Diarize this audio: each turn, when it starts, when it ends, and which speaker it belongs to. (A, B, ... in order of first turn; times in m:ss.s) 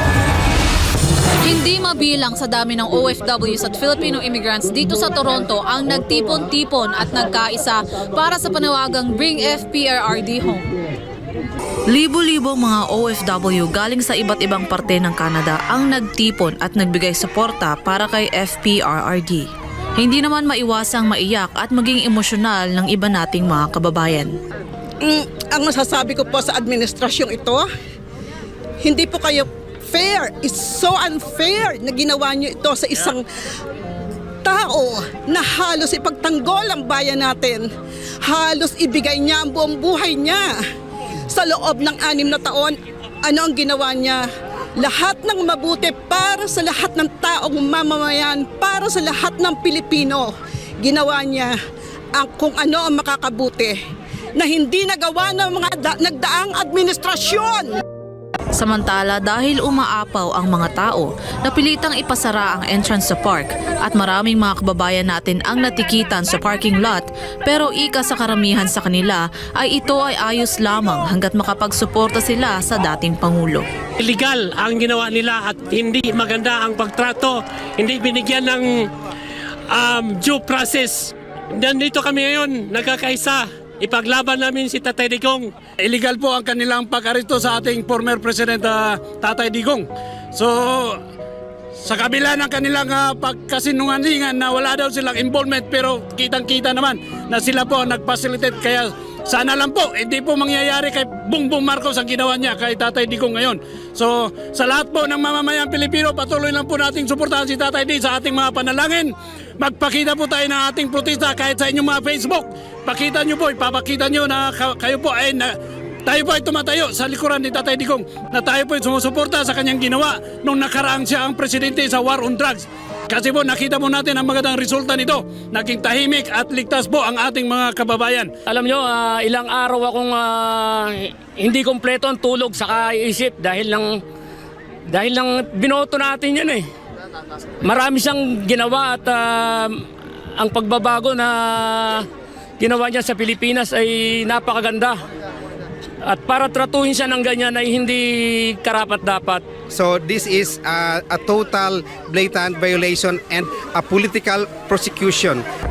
0:01.4-0:10.7 A
0:11.9-0:24.3 A
0:25.0-0:27.7 B
0:28.8-0:33.2 B
0:34.4-0:37.7 B
0:38.2-0:40.5 B
0:41.3-0:44.2 B
0:44.8-0:51.6 B
0:52.2-0:53.8 B
0:54.4-0:57.7 B
0:58.6-1:13.6 A
1:14.0-1:18.9 C
1:19.7-1:25.5 C
1:25.8-1:31.0 D
1:31.8-1:55.6 D
1:56.1-2:08.3 D
2:08.5-2:14.0 E
2:14.9-2:16.7 E
2:17.6-2:19.8 E
2:20.4-2:22.1 E
2:22.6-2:25.0 E
2:26.0-2:29.4 E
2:29.7-2:35.4 F